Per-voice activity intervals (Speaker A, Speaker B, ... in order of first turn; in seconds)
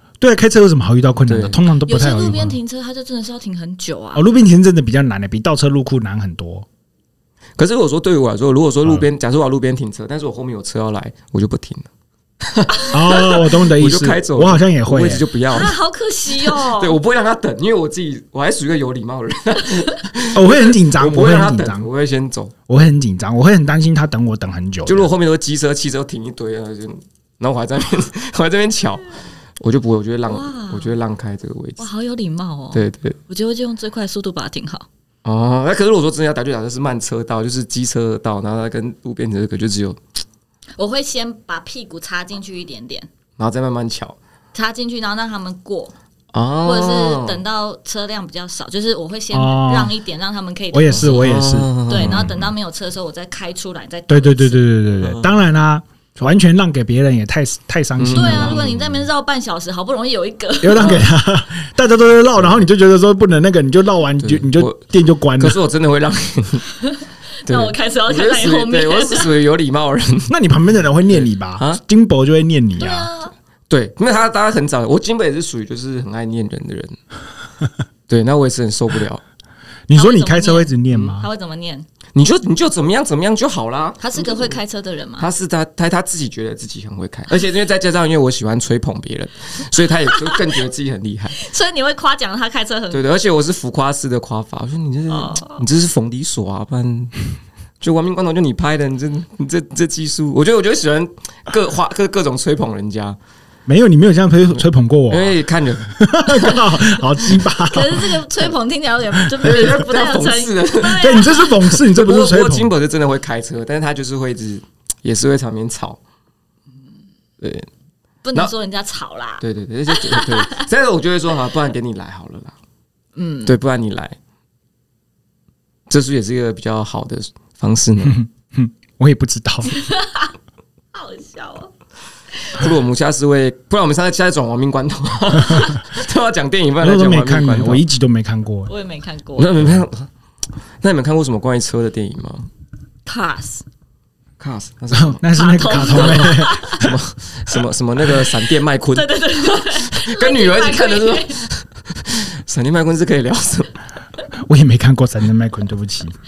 Speaker A: 0.2-2.6, 4.1-6.7, 12.9-15.2, 20.3-21.9, 22.7-25.1, 49.3-49.9, 50.7-52.4, 54.1-58.6, 60.6-65.6, 70.3-73.1, 79.9-81.3, 103.7-108.2, 109.1-109.7, 110.8-112.7, 128.0-129.7, 136.8-138.7, 144.9-146.9, 154.4-156.2
Speaker B: 1.2-1.6, 7.6-11.9, 12.5-15.8, 16.3-22.5, 24.9-31.9, 32.7-33.2, 35.2-40.0, 43.4-44.2, 46.3-47.4, 50.9-52.5, 55.0-55.4, 58.0-59.1, 60.8-61.1, 64.2-66.6, 67.5-70.3, 71.1-71.8, 73.7-77.0, 78.1-79.2, 82.1-84.5, 85.2-91.4, 92.9-97.2, 97.8-103.2, 104.6-106.0, 109.4-116.0, 117.4-117.7, 119.4-122.5, 123.4-124.2, 125.9-128.2, 132.5-137.8, 139.4-140.1, 140.8-142.5, 144.4-153.8
Speaker C: 1.9-4.3, 15.5-17.0, 30.2-30.9, 31.8-34.9, 40.8-43.1, 44.5-45.9, 46.6-54.9, 58.1-61.0, 66.8-69.3, 72.8-73.3, 79.9-81.9, 84.0-85.3, 90.1-90.4, 91.3-93.0, 95.1-95.6, 106.4-111.6, 118.2-120.7, 123.2-123.5, 129.7-130.3, 130.9-131.7, 138.7-139.6, 143.1-143.6, 145.3-146.9, 148.9-151.4